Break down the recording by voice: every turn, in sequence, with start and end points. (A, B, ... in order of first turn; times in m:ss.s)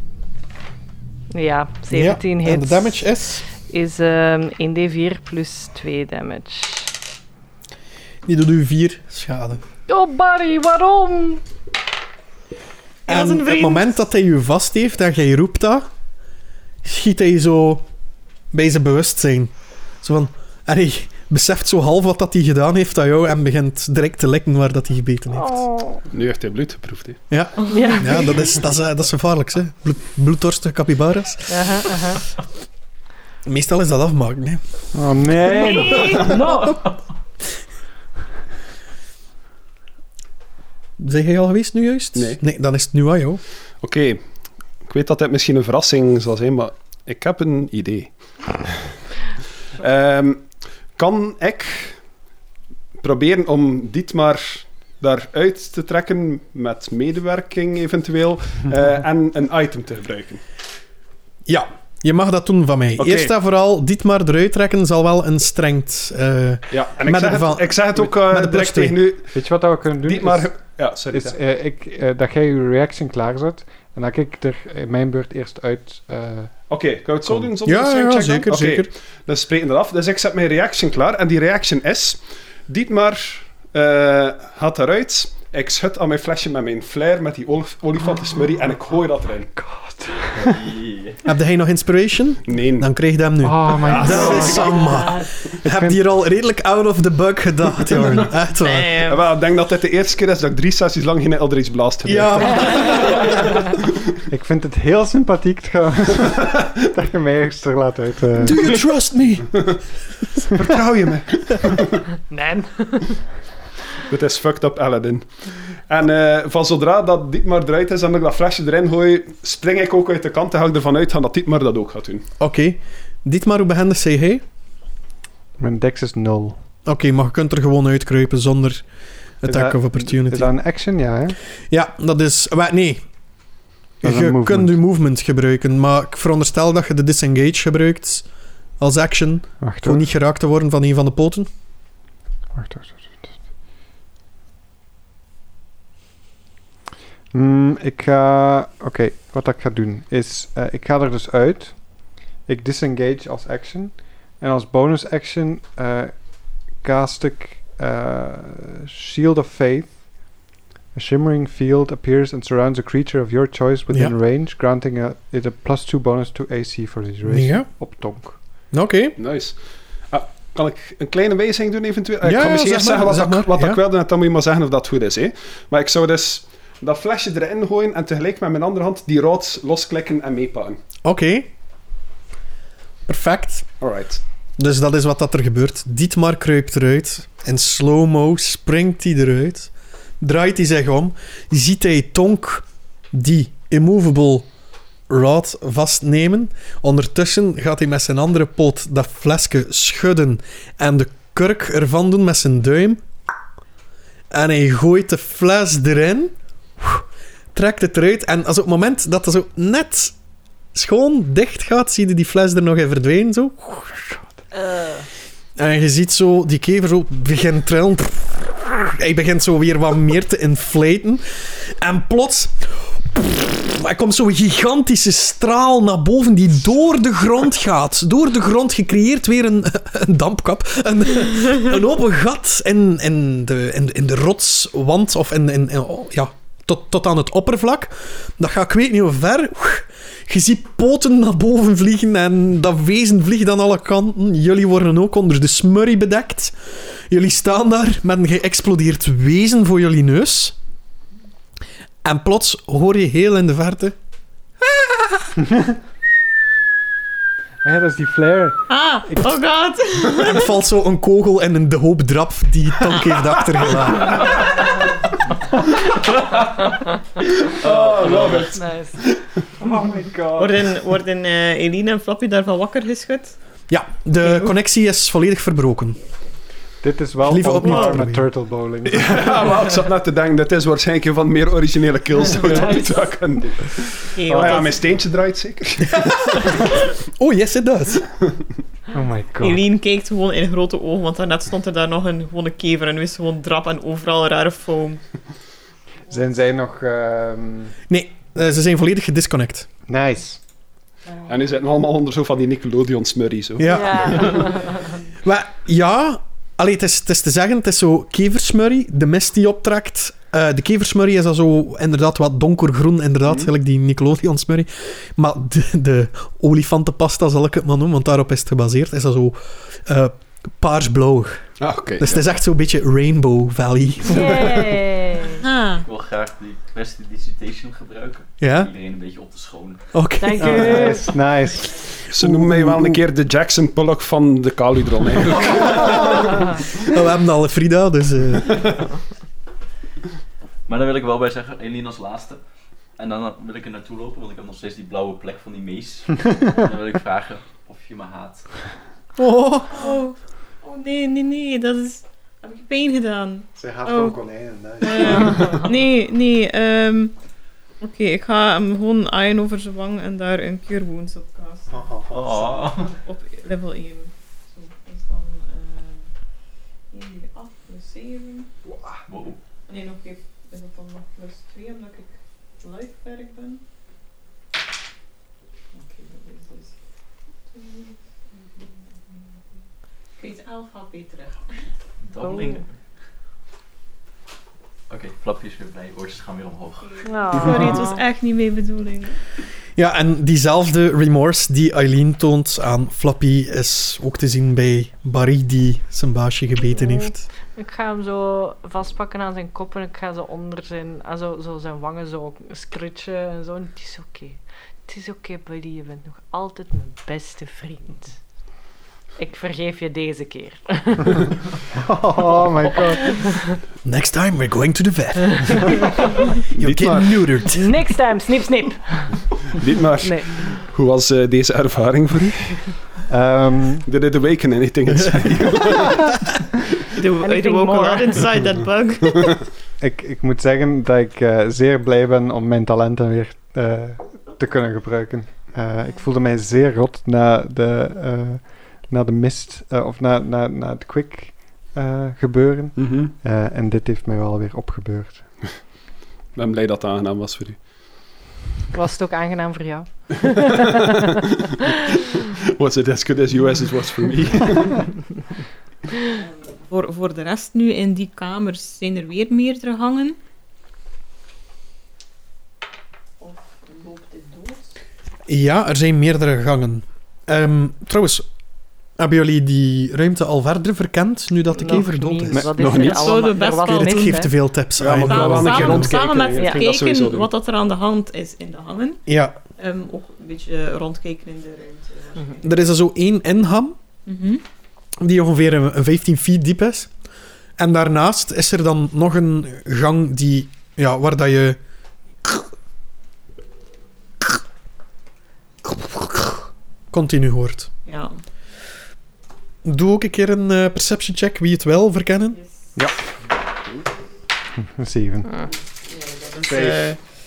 0:01.3-0:03.0 A
0:01.9-0:03.4 B
0:03.6-0:06.9 A
0:08.3-0:09.6 B
0:09.9-0:11.4 A
0:13.1-0:14.0 C
0:13.1-0:15.9 B
0:16.8-0:17.8 B
0:18.5-0:25.7 B
0:25.4-0:26.0 A
0:26.1-0:27.2 D
0:27.3-0:31.9 B
0:27.7-0:28.3 A
0:31.5-0:32.2 A
0:33.4-0:34.6 B
0:34.9-0:36.4 E
0:35.6-0:36.7 C
0:35.7-0:36.7 B
0:36.1-0:36.9 A
0:41.0-0:43.4 B
0:43.8-0:44.2 D
0:44.8-0:48.7 D
0:49.8-0:52.0 D
0:53.0-1:00.4 D
1:01.5-1:09.0 B
1:03.0-1:03.3 D
1:06.7-1:09.3 D
1:09.3-1:10.5 E
1:10.1-1:11.4 D
1:11.1-1:16.5 E
1:16.7-1:29.5 D
1:17.6-1:18.9 B
1:29.6-1:30.6 E
1:30.3-1:31.2 F
1:31.2-1:39.0 B
1:32.5-1:32.9 D
1:33.4-1:35.0 E
1:33.8-1:34.7 D
1:34.0-1:35.2 A
1:35.6-1:36.0 E
1:38.6-1:39.2 C
1:39.0-1:43.3 D
1:42.0-1:43.2 B
1:44.3-1:48.7 E
1:48.4-1:49.6 B
1:50.5-1:52.0 D
1:52.3-1:53.2 A
1:54.1-1:55.3 D
1:55.9-2:02.2 D
2:02.4-2:04.4 B
2:05.6-2:06.6 E
2:06.9-2:08.8 B
2:09.4-2:10.5 B
2:09.5-2:11.4 E
2:11.7-2:13.0 B
2:14.0-2:18.3 B
2:14.0-2:14.7 E
2:18.8-2:21.5 B
2:19.6-2:20.0 E
2:22.5-2:23.4 E
2:27.3-2:40.0 E
2:40.9-2:48.4 E
2:43.9-2:44.2 B
2:47.2-2:47.7 B
2:48.7-2:49.2 B
2:49.2-2:49.6 D
2:50.1-3:00.8 D
2:52.2-2:53.8 B
3:01.0-3:01.5 B
3:03.1-3:03.7 B
3:03.8-3:04.2 D
3:04.6-3:14.5 B
3:15.1-3:23.0 B
3:24.3-3:30.2 B
3:30.7-3:34.2 B
3:34.5-3:35.1 A
3:35.6-4:10.6 B
4:12.0-4:14.0 B
4:14.6-4:15.3 B
4:17.6-4:19.3 E
4:18.7-4:20.5 C
4:20.1-4:24.4 B
4:27.4-4:28.6 F
4:27.6-4:28.4 E
4:27.6-4:28.6 D
4:28.3-4:29.0 A
4:29.6-4:30.6 E
4:30.4-4:33.4 C
4:33.7-4:36.0 B
4:34.2-4:34.5 C
4:36.8-4:39.5 E
4:37.2-4:38.3 B
4:37.6-4:37.9 C
4:38.9-4:46.8 D
4:44.1-4:44.9 C
4:44.3-4:44.6 E
4:45.9-4:48.1 B
4:48.9-4:49.6 E
4:49.4-4:55.0 C
4:56.1-4:57.8 E
4:57.9-4:59.7 B
4:59.9-5:00.4 E
5:01.3-5:04.3 D
5:03.6-5:04.4 B
5:03.7-5:04.8 A
5:05.2-5:24.5 B
5:21.6-5:22.1 D
5:24.1-5:25.4 A
5:24.3-5:24.6 D
5:25.3-5:25.9 C
5:25.8-5:29.8 F
5:28.4-5:28.7 B
5:29.9-5:31.0 B
5:30.2-5:31.1 A
5:30.4-5:32.4 E
5:32.1-5:36.6 D
5:36.8-5:38.7 B
5:40.7-5:42.4 F
5:43.0-5:48.5 F
5:49.2-5:49.8 B
5:49.7-5:54.2 C
5:53.6-5:55.7 E
5:54.8-5:57.2 C
5:57.8-6:06.1 C
6:01.7-6:02.1 E
6:02.1-6:02.9 F
6:06.9-6:08.5 C
6:09.1-6:09.4 F
6:09.7-6:13.6 C
6:15.7-6:16.7 C
6:17.5-6:19.6 C
6:20.2-6:21.7 C
6:22.0-6:22.7 F
6:22.2-6:22.6 A
6:24.9-6:27.0 F
6:26.8-6:29.2 C
6:27.0-6:28.0 A
6:29.8-6:37.2 B
6:36.6-6:48.2 A
6:49.2-6:51.2 A
6:51.8-6:53.3 E
6:53.8-6:56.0 B
6:56.5-6:57.2 D
6:56.6-6:57.8 B
6:57.5-6:59.2 A
6:59.6-7:02.7 D
7:00.0-7:00.3 A
7:03.1-7:03.9 E
7:03.9-7:06.1 D
7:07.0-7:09.4 C
7:07.2-7:08.2 A
7:09.8-7:25.4 E
7:22.8-7:23.1 D
7:26.4-7:27.6 D
7:28.7-7:31.2 A
7:32.4-7:34.9 D
7:36.1-7:40.2 C
7:43.2-7:44.8 C
7:45.3-7:48.3 B
7:49.0-7:52.5 B
7:51.5-7:54.3 A
7:52.3-7:53.2 D
7:52.7-7:54.3 C
7:53.7-7:56.0 B
7:54.8-7:57.3 D
7:55.0-7:59.0 C
7:59.1-7:59.4 B
7:59.6-8:02.6 C
8:02.4-8:03.8 B
8:04.1-8:04.4 C
8:05.0-8:06.9 B
8:07.6-8:11.6 B
8:15.7-8:16.3 B
8:16.9-8:17.7 B
8:17.9-8:18.2 C
8:19.6-8:22.4 B
8:22.3-8:22.8 C
8:24.6-8:25.3 E
8:25.8-8:27.0 C